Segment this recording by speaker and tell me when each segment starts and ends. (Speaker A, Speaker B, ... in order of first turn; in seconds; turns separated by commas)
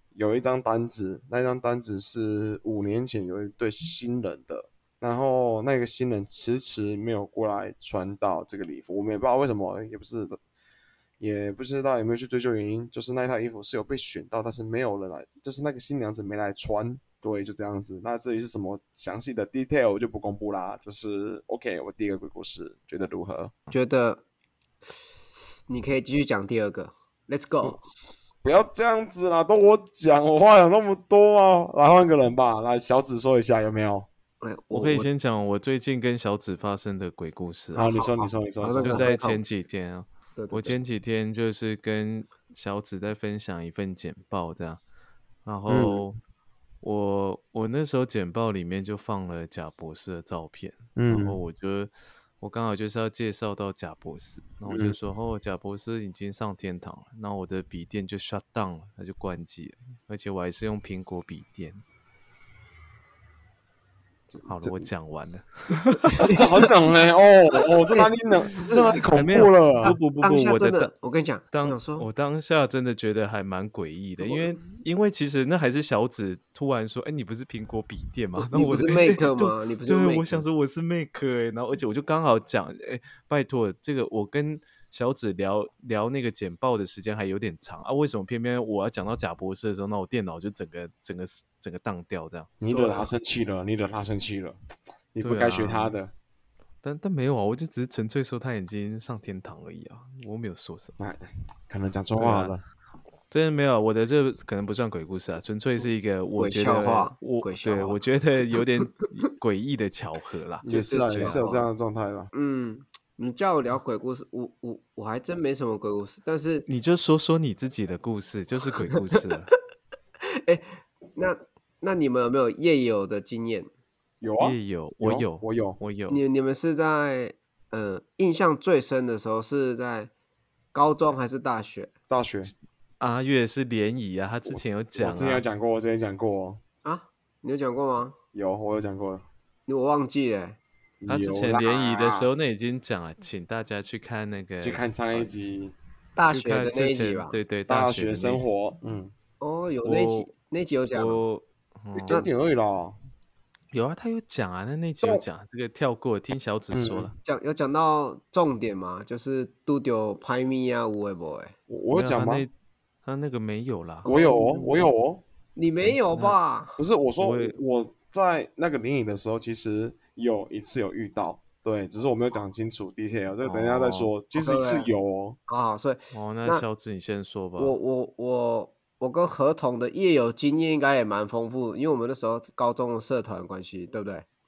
Speaker A: 0.1-10.4, Speaker A: 11.2-23.5, Speaker B: 23.7-24.2, Speaker B: 25.7-27.8, Speaker A: 28.4-34.1, Speaker B: 34.4-35.1, Speaker C: 34.7-37.9, Speaker A: 37.8-39.1, Speaker B: 37.8-39.4, Speaker C: 38.7-44.8, Speaker B: 40.4-40.8, Speaker C: 45.5-46.2, Speaker A: 45.7-46.0, Speaker C: 46.8-61.8, Speaker A: 51.0-51.4, Speaker A: 54.7-55.0, Speaker A: 64.3-64.9, Speaker C: 64.5-66.3, Speaker B: 66.2-66.7, Speaker A: 66.3-70.0, Speaker B: 67.9-68.9, Speaker C: 69.1-70.9, Speaker B: 69.8-72.1, Speaker C: 71.5-92.5, Speaker B: 74.2-74.7, Speaker B: 78.5-80.4, Speaker A: 92.6-94.6, Speaker B: 92.7-93.1, Speaker A: 95.1-96.1, Speaker C: 95.2-96.0, Speaker C: 96.8-101.0, Speaker A: 101.0-102.6, Speaker C: 102.2-102.5, Speaker C: 103.3-111.4, Speaker B: 106.4-108.0, Speaker A: 110.6-112.3, Speaker B: 110.7-111.7, Speaker B: 112.3-116.7, Speaker C: 116.7-119.5, Speaker B: 120.3-123.7, Speaker A: 124.2-125.8, Speaker C: 124.4-126.2, Speaker B: 126.1-130.1, Speaker B: 130.7-131.9, Speaker A: 132.1-132.5, Speaker C: 133.0-135.4, Speaker A: 134.5-136.6, Speaker B: 136.8-138.2, Speaker A: 138.3-139.2, Speaker B: 139.7-140.6, Speaker A: 141.0-142.3, Speaker C: 141.1-145.2, Speaker A: 144.6-145.8, Speaker B: 146.2-147.4, Speaker C: 146.3-148.4, Speaker A: 147.7-149.1, Speaker B: 149.4-151.2, Speaker C: 149.8-150.3, Speaker C: 150.9-152.2, Speaker A: 151.9-153.0, Speaker C: 153.7-157.1, Speaker A: 156.7-157.1, Speaker B: 157.2-161.6, Speaker A: 161.7-162.5, Speaker C: 161.9-162.5, Speaker C: 163.1-164.1, Speaker B: 164.0-164.9, Speaker A: 164.1-165.2, Speaker B: 165.6-166.8, Speaker C: 165.8-166.4, Speaker A: 166.8-175.4, Speaker C: 167.2-167.6, Speaker C: 173.4-174.1, Speaker B: 174.3-174.9, Speaker B: 175.5-176.6, Speaker C: 176.1-177.8, Speaker B: 177.6-184.3